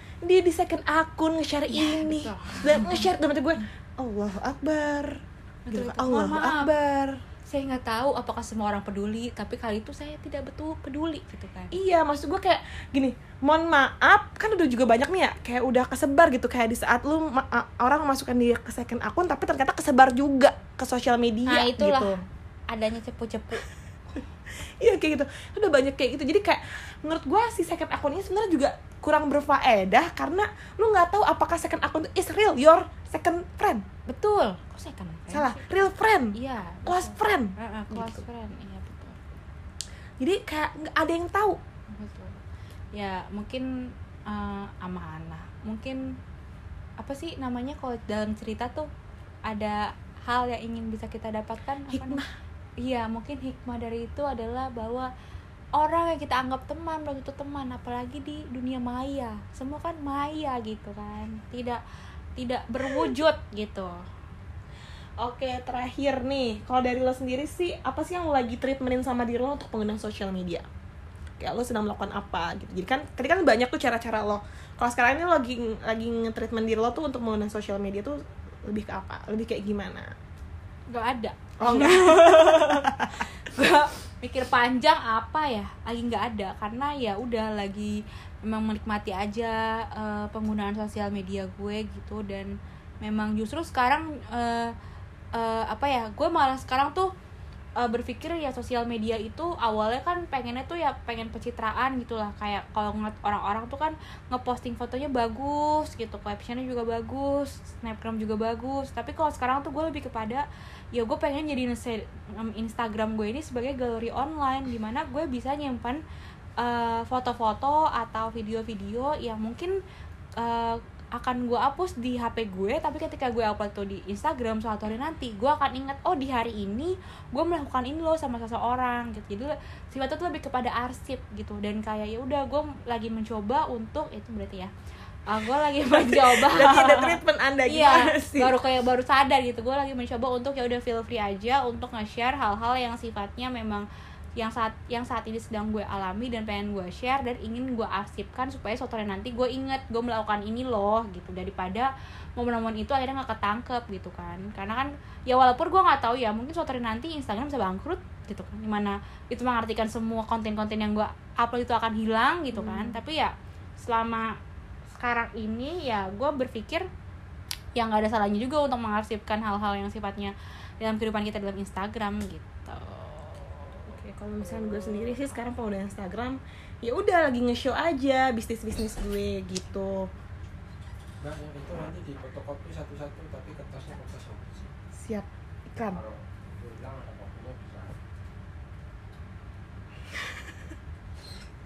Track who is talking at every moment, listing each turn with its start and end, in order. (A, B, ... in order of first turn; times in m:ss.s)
0:00.2-0:07.2 A
0:01.7-0:03.1 B
0:05.7-0:06.7 B
0:07.5-0:11.7 B
0:11.7-0:22.2 A
0:21.5-0:23.6 B
0:24.5-0:33.8 A
0:34.1-0:35.6 B
0:35.3-0:38.2 A
0:36.3-0:39.2 B
0:40.2-0:41.6 A
0:41.9-0:42.4 B
0:42.9-0:43.7 B
0:44.3-0:46.2 B
0:47.0-0:48.9 B
0:49.5-0:52.2 B
0:51.9-0:52.3 A
0:52.8-0:55.1 B
0:55.8-1:01.8 B
1:02.4-1:04.0 B
1:05.2-1:10.6 A
1:11.4-1:20.1 A
1:20.9-1:34.7 B
1:21.6-1:23.2 A
1:35.3-1:37.1 B
1:37.8-1:56.0 B
1:56.6-1:59.8 B
2:00.4-2:14.7 B
2:15.3-2:23.8 B
2:15.8-2:18.5 A
2:24.4-2:44.4 B
2:42.5-2:43.0 A
2:45.0-2:46.9 B
2:47.7-2:53.9 B
2:53.9-3:00.1 A
2:54.5-2:55.1 B
3:01.2-3:04.7 C
3:05.0-3:06.0 A
3:05.9-3:08.0 C